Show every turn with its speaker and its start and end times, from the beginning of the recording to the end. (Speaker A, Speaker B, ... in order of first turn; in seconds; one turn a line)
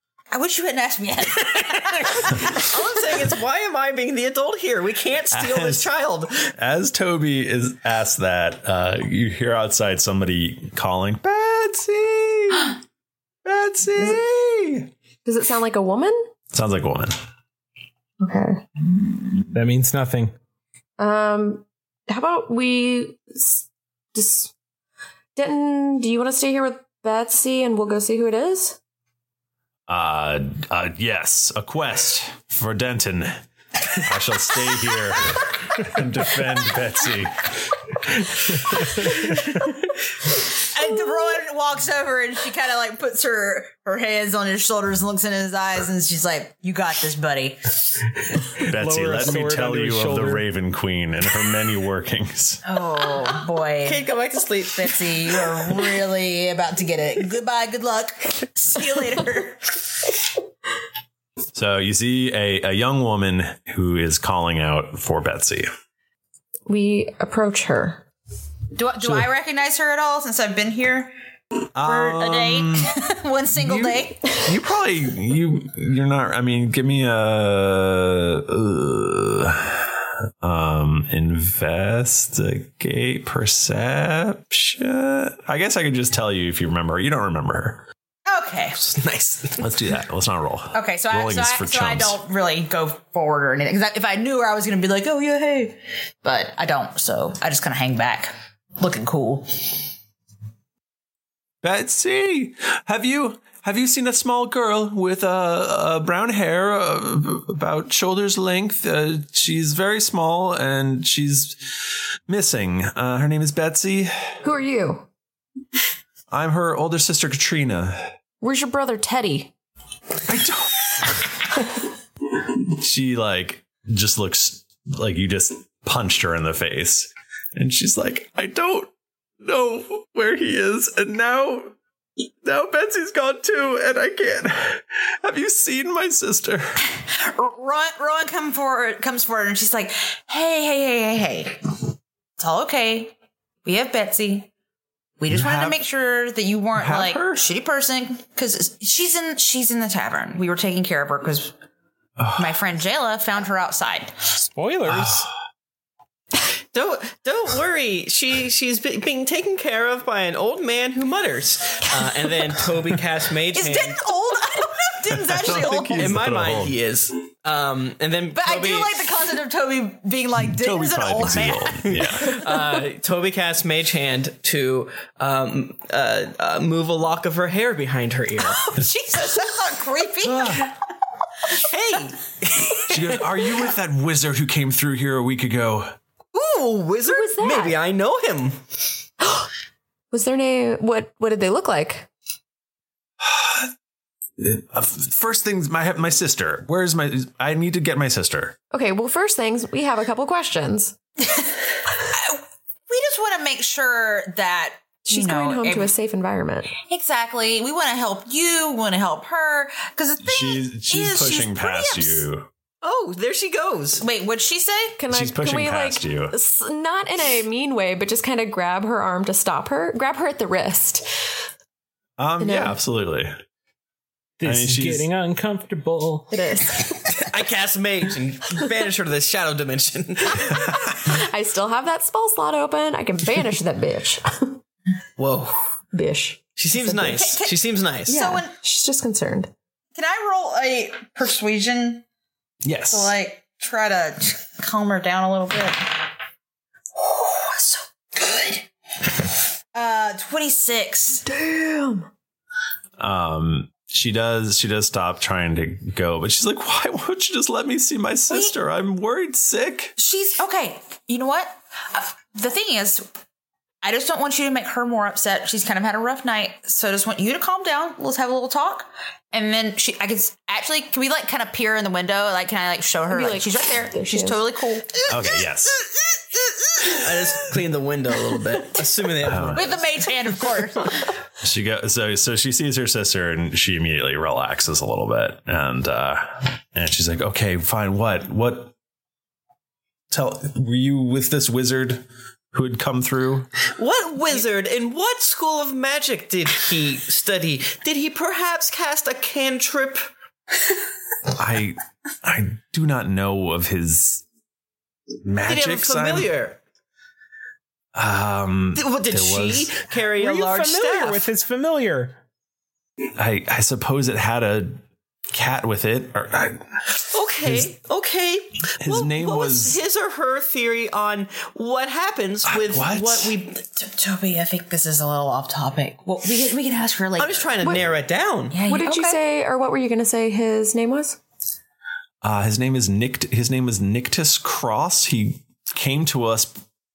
Speaker A: 0.3-3.1
Speaker B: 2.5-6.5
Speaker C: 5.3-5.9
Speaker C: 6.5-12.8
Speaker C: 13.4-14.9
Speaker D: 15.2-16.2
Speaker C: 16.5-17.1
Speaker D: 18.2-18.6
Speaker E: 19.5-20.3
Speaker D: 21.0-24.5
Speaker D: 25.3-28.8
Speaker C: 29.9-33.4
Speaker C: 34.0-37.8
Speaker A: 40.5-47.6
Speaker E: 48.6-50.4
Speaker C: 48.6-52.6
Speaker A: 52.6-54.0
Speaker B: 53.8-55.8
Speaker A: 54.6-59.7
Speaker C: 61.5-65.7
Speaker D: 66.7-68.0
Speaker A: 68.7-71.1
Speaker C: 71.7-72.9
Speaker A: 71.8-74.2
Speaker C: 73.5-87.8
Speaker A: 88.2-88.8
Speaker B: 88.8-89.7
Speaker C: 89.6-92.2
Speaker A: 90.7-99.9
Speaker C: 101.6-114.1
Speaker D: 114.4-115.0
Speaker C: 116.3-118.1
Speaker D: 118.4-119.5
Speaker C: 120.3-121.2
Speaker C: 122.7-128.9
Speaker C: 129.4-136.8
Speaker A: 136.9-141.6
Speaker A: 142.4-144.5
Speaker A: 145.2-151.5
Speaker C: 145.3-145.8
Speaker C: 146.8-147.4
Speaker C: 152.2-152.6
Speaker A: 152.4-154.1
Speaker E: 154.3-155.3
Speaker C: 154.9-155.3
Speaker B: 156.7-164.0
Speaker A: 163.5-166.2
Speaker C: 165.1-166.8
Speaker B: 165.9-169.0
Speaker A: 168.3-171.9
Speaker C: 170.4-172.4
Speaker B: 171.9-178.6
Speaker A: 178.4-180.6
Speaker C: 180.2-180.7
Speaker B: 181.6-183.2
Speaker C: 182.9-185.9
Speaker B: 186.3-188.6
Speaker D: 187.1-187.8
Speaker D: 189.2-189.5
Speaker D: 190.1-192.1
Speaker C: 193.2-193.7
Speaker C: 194.4-198.5
Speaker D: 198.7-200.9
Speaker A: 201.3-205.9
Speaker D: 205.1-206.7
Speaker A: 206.8-212.2
Speaker C: 210.2-212.5
Speaker B: 212.8-214.0
Speaker A: 214.0-215.0
Speaker D: 215.0-221.0
Speaker C: 215.1-216.3
Speaker C: 222.2-223.3
Speaker D: 222.4-222.8
Speaker E: 224.4-226.3
Speaker C: 224.4-225.1
Speaker D: 226.3-227.1
Speaker B: 227.3-230.6
Speaker D: 230.9-234.6
Speaker B: 235.2-235.6
Speaker D: 235.9-237.2
Speaker B: 236.6-238.2
Speaker A: 237.1-238.5
Speaker D: 238.1-239.5
Speaker A: 239.9-242.0
Speaker C: 242.6-243.1
Speaker A: 242.9-246.1
Speaker A: 246.9-248.7
Speaker A: 249.7-251.2
Speaker D: 251.2-252.1
Speaker C: 253.0-259.9
Speaker A: 260.0-263.1
Speaker A: 263.8-275.1
Speaker D: 273.1-274.4
Speaker C: 275.1-275.8
Speaker B: 276.9-279.9
Speaker C: 279.2-279.8
Speaker A: 279.5-281.1
Speaker C: 281.4-288.7
Speaker C: 290.1-293.5
Speaker B: 293.8-300.1
Speaker C: 301.3-304.2
Speaker C: 305.2-306.3
Speaker B: 305.4-306.6
Speaker C: 307.9-309.7
Speaker B: 308.8-311.3
Speaker E: 310.1-312.1
Speaker C: 313.1-316.6
Speaker B: 317.1-323.6
Speaker C: 317.4-317.7
Speaker C: 318.8-319.8
Speaker C: 322.4-323.3
Speaker A: 323.6-327.7
Speaker B: 327.2-328.6
Speaker A: 328.5-329.2
Speaker D: 328.6-331.2
Speaker C: 332.2-336.6